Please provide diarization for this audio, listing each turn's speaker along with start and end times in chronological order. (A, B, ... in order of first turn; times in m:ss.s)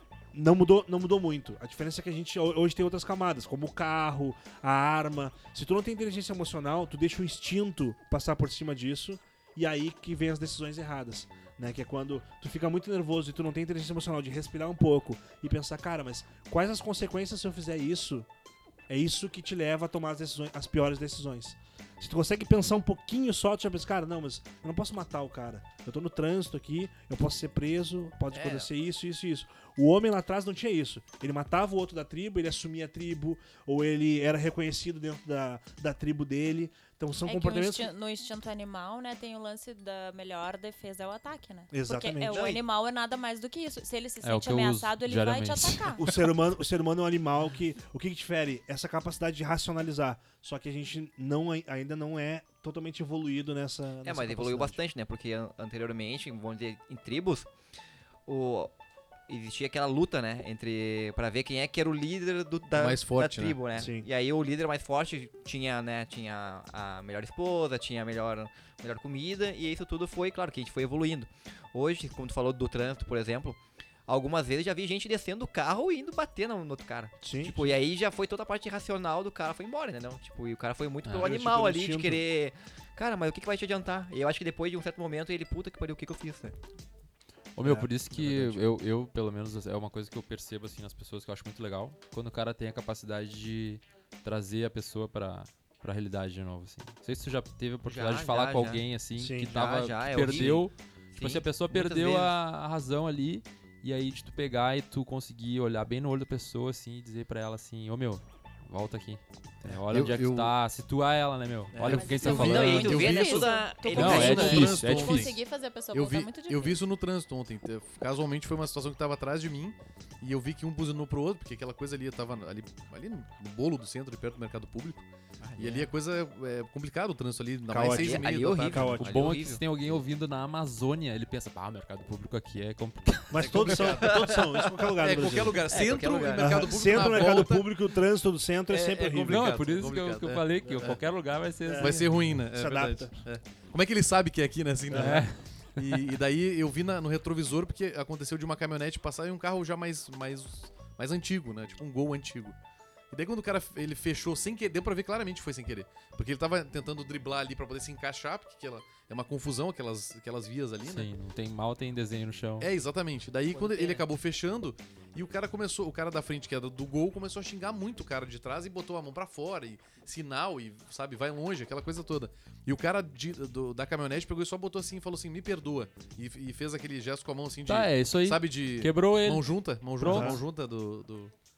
0:00.3-0:18.3 A
0:18.9-0:37.9 A
0:28.3-0:28.6 B
0:37.2-0:46.0 C
0:41.7-0:42.5 A
0:42.3-0:42.6 B
0:44.2-0:45.8 D
0:46.0-0:54.8 A
0:54.0-0:57.5 B
0:58.2-0:58.7 B
0:59.3-1:26.6 B
1:02.7-1:03.6 E
1:03.7-1:04.1 A
1:17.2-1:17.7 A
1:21.0-1:21.3 D
1:21.2-1:22.2 A
1:27.6-1:53.0 D
1:27.6-1:28.6 A
1:37.8-1:38.8 B
1:39.2-1:39.5 A
1:39.4-1:42.3 B
1:49.9-1:50.5 E
1:51.7-1:55.4 E
1:51.8-1:56.8 C
1:51.9-1:54.8 B
1:53.9-1:55.3 D
1:55.9-2:09.0 E
2:05.4-2:05.9 B
2:07.7-2:09.3 A
2:07.8-2:09.6 B
2:08.9-2:13.9 D
2:13.3-2:19.5 A
2:13.4-2:14.4 E
2:13.8-2:14.4 B
2:14.9-2:17.7 E
2:15.7-2:17.3 B
2:18.7-2:21.0 E
2:19.3-2:22.1 D
2:21.7-2:23.2 A
2:21.8-2:32.6 E
2:24.9-2:25.2 A
2:24.9-2:25.4 D
2:33.1-2:41.1 E
2:40.8-2:42.7 D
2:42.6-3:01.3 E
2:43.5-2:44.0 B
2:57.7-3:00.4 D
3:00.0-3:00.4 A